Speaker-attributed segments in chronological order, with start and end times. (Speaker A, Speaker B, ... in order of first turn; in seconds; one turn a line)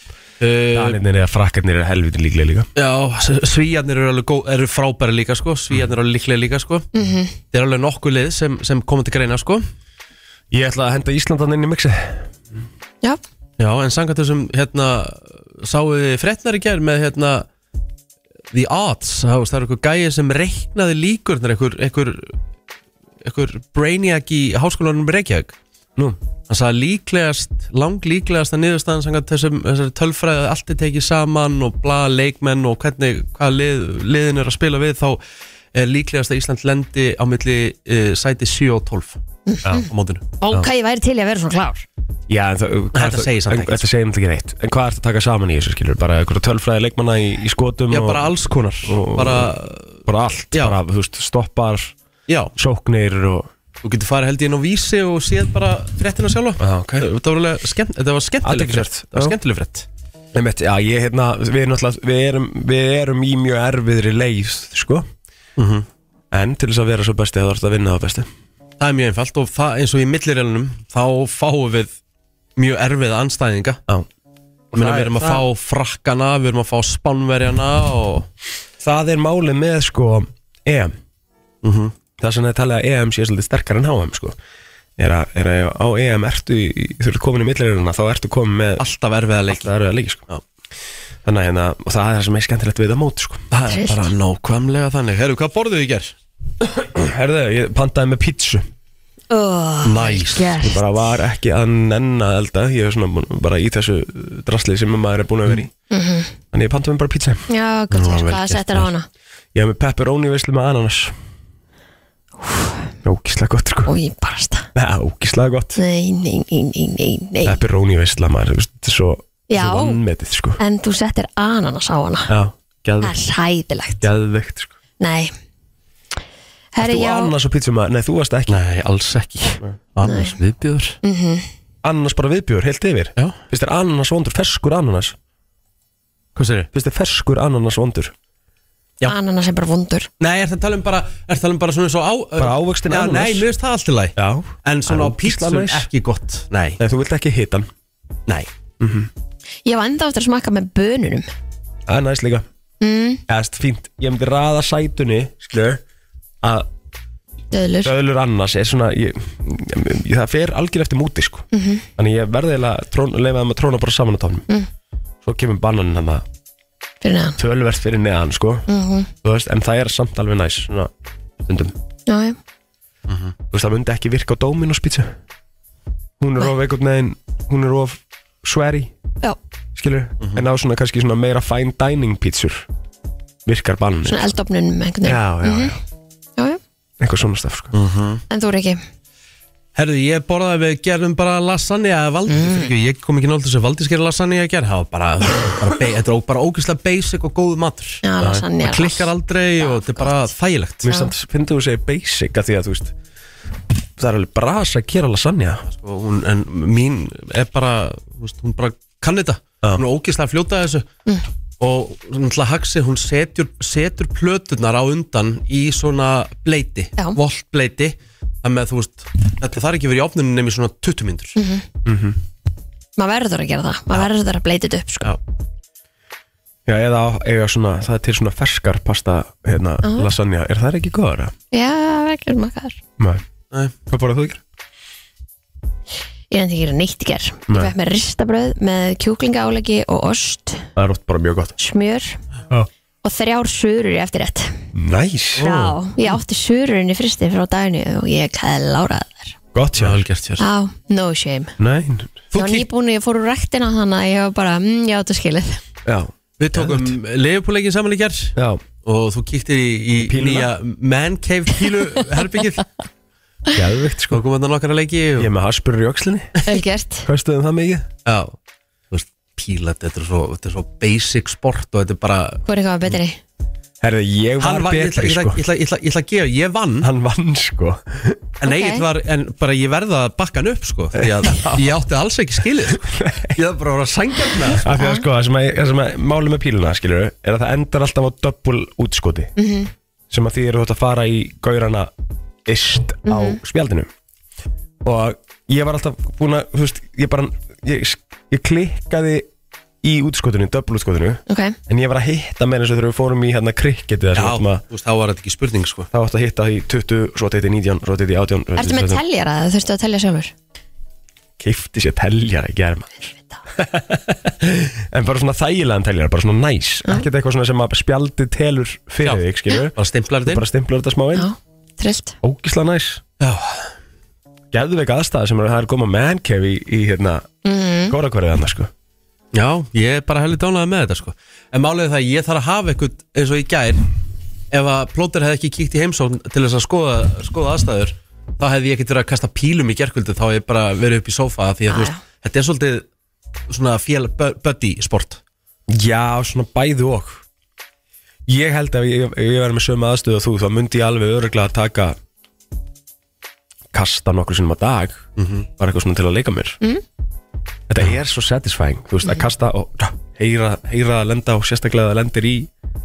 Speaker A: 0.4-1.0
Speaker B: 0.7-2.7
Speaker A: 2.8-6.9
Speaker C: 6.9-7.3
Speaker A: 7.5-9.7
Speaker B: 10.5-12.3
Speaker A: 13.6-17.5
Speaker A: 18.5-22.3
Speaker A: 23.2-25.6
Speaker A: 26.5-35.2
Speaker A: 35.7-39.2
Speaker C: 39.5-39.9
Speaker A: 39.9-40.2
Speaker C: 40.4-41.9
Speaker B: 42.3-48.3
Speaker A: 43.0-43.9
Speaker A: 47.9-50.0
Speaker B: 48.8-49.5
Speaker B: 50.0-51.9
Speaker A: 52.3-52.5
Speaker B: 52.6-53.5
Speaker A: 53.8-59.9
Speaker B: 56.6-57.1
Speaker B: 58.4-59.4
Speaker B: 60.3-65.1
Speaker A: 65.6-65.9
Speaker B: 66.3-68.3
Speaker A: 68.8-71.9
Speaker A: 72.6-73.8
Speaker B: 74.7-75.4
Speaker A: 74.7-78.3
Speaker B: 78.8-81.0
Speaker A: 81.6-81.9
Speaker B: 82.2-84.4
Speaker B: 85.0-88.8
Speaker A: 88.8-89.7
Speaker B: 89.5-90.2
Speaker B: 91.2-93.5
Speaker A: 93.5-96.1
Speaker C: 93.7-94.0
Speaker B: 96.6-98.7
Speaker C: 99.3-101.0
Speaker A: 99.8-100.6
Speaker B: 100.6-105.7
Speaker C: 105.9-106.3
Speaker B: 106.5-107.4
Speaker C: 107.5-109.1
Speaker A: 107.9-108.9
Speaker B: 109.5-111.2
Speaker C: 112.4-112.9
Speaker B: 113.0-113.9
Speaker C: 113.9-114.7
Speaker B: 114.8-115.8
Speaker C: 115.8-117.6
Speaker B: 117.5-120.6
Speaker C: 119.5-120.0
Speaker C: 120.6-122.3
Speaker B: 122.3-123.2
Speaker C: 123.0-124.1
Speaker B: 124.0-124.7
Speaker C: 125.0-125.3
Speaker C: 126.7-127.3
Speaker B: 126.8-128.6
Speaker A: 128.5-131.0
Speaker C: 130.0-130.4
Speaker C: 131.0-131.5
Speaker B: 131.8-135.2
Speaker A: 136.4-136.7
Speaker B: 136.7-138.1
Speaker C: 139.1-140.1
Speaker A: 140.2-146.8
Speaker B: 142.4-143.5
Speaker B: 144.2-145.9
Speaker B: 146.8-147.7
Speaker B: 148.8-149.1
Speaker C: 149.7-151.3
Speaker B: 151.9-152.4
Speaker C: 152.8-153.2
Speaker B: 153.3-155.8
Speaker B: 156.4-156.7
Speaker C: 157.5-157.9
Speaker B: 157.8-161.4
Speaker C: 161.5-161.9
Speaker B: 162.0-164.5
Speaker B: 165.2-166.2
Speaker C: 167.0-167.4
Speaker B: 167.4-168.7
Speaker C: 168.7-169.1
Speaker B: 169.2-170.9
Speaker B: 171.4-171.7
Speaker C: 172.1-172.4
Speaker A: 173.1-173.3
Speaker B: 173.5-175.2
Speaker B: 176.2-178.9
Speaker B: 179.8-182.7
Speaker B: 183.5-184.3
Speaker C: 184.1-185.8
Speaker B: 185.0-185.8
Speaker B: 187.0-187.7
Speaker A: 187.7-188.2
Speaker C: 188.3-188.8
Speaker A: 189.8-200.9
Speaker C: 192.3-192.7
Speaker C: 198.0-199.1
Speaker C: 199.6-200.3
Speaker B: 200.8-202.9
Speaker C: 200.9-201.1
Speaker B: 204.0-205.7
Speaker A: 205.7-210.9
Speaker A: 211.6-221.4
Speaker C: 221.4-221.7
Speaker B: 221.8-222.2
Speaker C: 223.0-225.1
Speaker B: 226.7-231.3
Speaker C: 229.8-230.1
Speaker C: 231.5-232.8
Speaker B: 233.0-233.2
Speaker B: 233.9-234.4
Speaker C: 236.3-240.7
Speaker B: 240.8-241.5
Speaker C: 241.6-242.2
Speaker C: 243.0-244.6
Speaker B: 244.7-245.7
Speaker C: 245.4-249.4
Speaker A: 245.4-245.7
Speaker B: 249.5-250.0
Speaker A: 249.8-250.4
Speaker C: 250.4-251.5
Speaker B: 251.6-252.2
Speaker A: 252.3-252.7
Speaker C: 252.3-255.6
Speaker B: 255.8-256.9
Speaker A: 256.4-262.7
Speaker B: 258.4-258.6
Speaker B: 260.0-260.5
Speaker B: 263.5-264.2
Speaker A: 264.1-265.3
Speaker B: 265.2-266.3
Speaker C: 266.4-267.1
Speaker B: 267.1-267.9
Speaker A: 268.1-268.4
Speaker A: 268.9-272.4
Speaker C: 272.5-273.2
Speaker B: 273.8-275.4
Speaker A: 274.4-276.9
Speaker B: 276.8-278.2
Speaker A: 278.4-284.6
Speaker C: 278.4-278.9
Speaker B: 281.0-281.6
Speaker B: 282.8-283.4
Speaker B: 284.5-289.3
Speaker C: 284.8-285.1
Speaker C: 289.4-289.7
Speaker B: 290.1-291.9
Speaker B: 292.5-293.9
Speaker C: 293.1-293.4
Speaker B: 294.8-299.3
Speaker B: 299.8-304.6
Speaker C: 301.3-301.6
Speaker A: 304.1-305.9
Speaker B: 305.9-309.0
Speaker C: 308.6-310.3
Speaker B: 311.4-313.0
Speaker C: 313.0-313.4
Speaker B: 313.6-321.3
Speaker A: 319.8-320.4
Speaker C: 321.1-322.2
Speaker B: 322.2-323.0
Speaker A: 323.2-323.7
Speaker B: 324.5-327.3
Speaker C: 327.4-327.9
Speaker B: 327.9-328.7
Speaker A: 329.3-333.9
Speaker A: 334.5-342.9
Speaker C: 341.7-342.0
Speaker A: 343.5-345.2
Speaker B: 345.7-347.2
Speaker B: 348.3-352.0
Speaker B: 353.7-356.6
Speaker A: 355.2-355.5
Speaker B: 357.7-362.5